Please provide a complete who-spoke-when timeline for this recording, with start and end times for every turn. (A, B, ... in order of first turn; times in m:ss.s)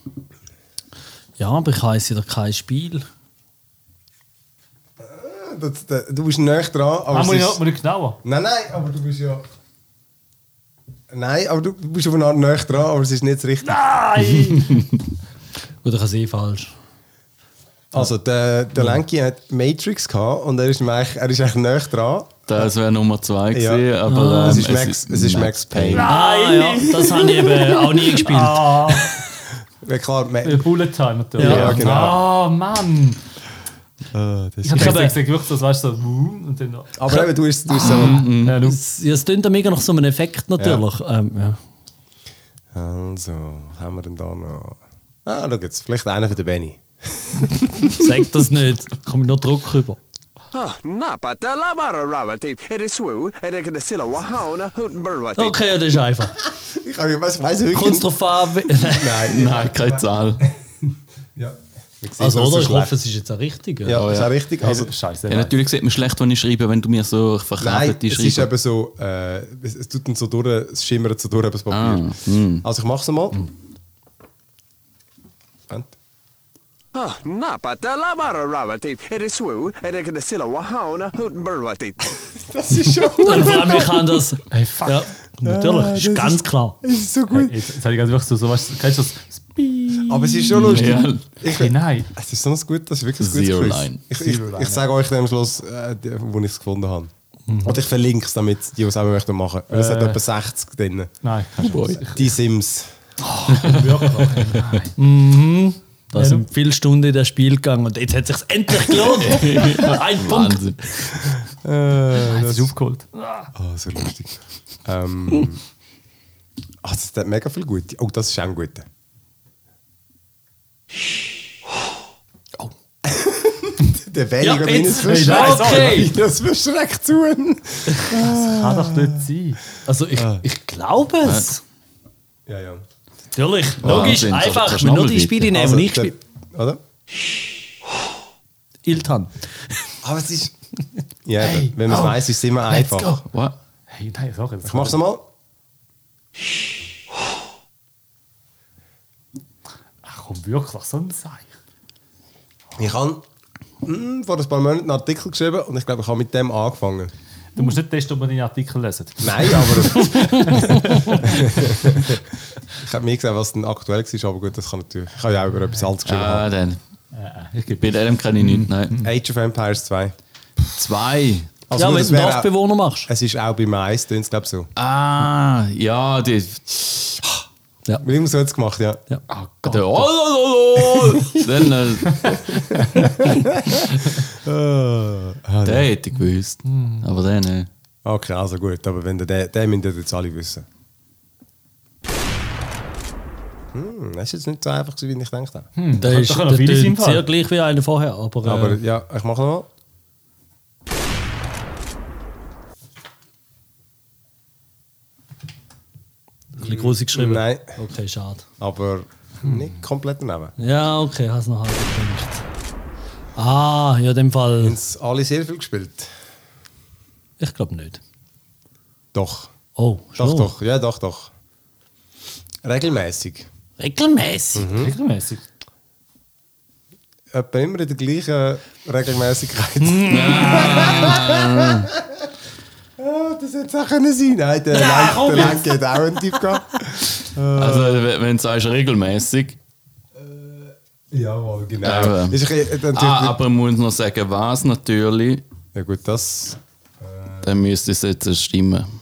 0:01.4-0:03.1 A
0:05.0-0:07.6 B
0:07.1-0:08.2 C
0:08.2-0:09.4 B
0:11.1-0:14.0 B
0:14.2-0:14.7 A
0:14.2-0:14.6 C
0:15.8-0:16.7 A
0:17.9-0:22.6 B
0:22.5-0:26.1 D
0:23.5-0:23.9 B
0:24.1-0:24.6 A
0:24.4-0:26.1 B
0:25.9-0:29.2 C
0:26.0-0:29.1 A
0:29.8-0:30.7 B
0:30.4-0:33.2 C
0:31.4-0:31.8 A
0:31.4-0:32.2 B
0:31.4-0:31.8 D
0:34.1-0:35.1 B
0:34.6-0:37.2 C
0:34.8-0:35.2 A
0:37.0-0:38.3 B
0:37.7-0:38.8 C
0:37.8-0:38.1 A
0:37.8-0:38.6 D
0:38.6-0:41.6 A
0:40.6-0:40.8 B
0:42.7-0:48.1 B
0:47.9-0:50.0 A
0:50.5-0:55.6 E
0:55.4-0:56.4 A
0:56.4-1:03.0 B
0:57.7-0:59.3 A
0:59.3-1:00.4 D
1:02.2-1:04.0 A
1:03.8-1:04.9 B
1:03.9-1:04.3 D
1:04.6-1:05.6 C
1:05.3-1:08.5 D
1:07.6-1:12.1 B
1:11.7-1:12.7 D
1:12.6-1:13.4 B
1:15.7-1:15.9 B
1:16.9-1:22.1 E
1:22.4-1:24.2 B
1:23.2-1:26.8 A
1:24.5-1:25.1 C
1:25.4-1:27.7 B
1:27.3-1:32.1 C
1:30.0-1:37.1 B
1:30.6-1:31.2 D
1:33.2-1:34.0 D
1:34.1-1:34.8 C
1:37.6-1:41.2 B
1:39.7-1:40.2 C
1:41.2-1:42.3 C
1:41.6-1:42.0 D
1:41.7-1:42.9 B
1:43.2-1:45.0 C
1:43.6-1:44.2 D
1:45.0-1:50.7 A
1:46.1-1:46.5 C
1:49.0-1:50.8 D
1:51.2-1:52.7 B
1:52.1-1:53.5 C
1:53.6-1:55.6 B
1:56.8-1:58.9 B
2:03.0-2:09.2 B
2:04.4-2:06.1 A
2:05.0-2:06.1 C
2:08.2-2:09.6 C
2:09.8-2:11.6 A
2:10.1-2:10.4 B
2:11.2-2:11.5 D
2:12.5-2:12.8 B
2:13.4-2:16.2 A
2:13.8-2:15.5 D
2:15.5-2:16.8 B
2:18.8-2:19.4 A
2:20.0-2:20.6 B
2:21.2-2:23.1 B
2:21.8-2:22.1 C
2:23.3-2:23.6 D
2:23.9-2:25.0 C
2:24.6-2:25.2 B
2:30.0-2:31.6 C
2:32.8-2:33.2 B
2:33.8-2:37.1 B
2:37.6-2:42.0 C
2:39.2-2:46.5 B
2:46.0-2:46.8 D
2:47.1-2:49.1 C
2:47.8-2:49.0 D
2:49.0-2:50.2 B
2:50.7-2:51.5 D
2:51.7-2:52.5 B
2:51.8-2:53.1 A
2:53.1-2:54.7 B
2:54.8-2:57.2 D
2:58.0-2:59.0 B
2:59.3-3:00.1 C
2:59.6-3:02.4 D
3:00.9-3:01.4 B
3:02.4-3:05.9 B
3:05.6-3:07.7 D
3:06.7-3:07.1 C
3:08.0-3:10.7 B
3:13.7-3:15.7 B
3:15.8-3:17.3 C
3:16.0-3:18.8 A
3:18.4-3:19.7 B
3:26.6-3:28.4 A
3:26.6-3:27.8 B
3:28.6-3:30.5 B
3:29.4-3:29.7 C
3:30.6-3:32.4 A
3:33.4-3:34.8 A
3:34.6-3:36.1 B
3:37.4-3:38.0 A
3:39.1-3:39.5 B
3:39.8-3:40.5 A
3:40.2-3:41.3 B
3:42.6-3:43.5 B
3:43.8-3:44.7 A
3:44.5-3:45.0 B
3:44.8-3:45.4 C
3:47.3-3:52.3 B
3:49.8-3:50.8 A
3:50.1-3:51.9 D
3:53.0-3:58.1 B
3:54.7-3:55.8 A
3:57.6-3:59.6 D
4:00.2-4:03.4 B
4:01.8-4:05.4 D
4:05.7-4:07.5 B
4:07.4-4:08.9 D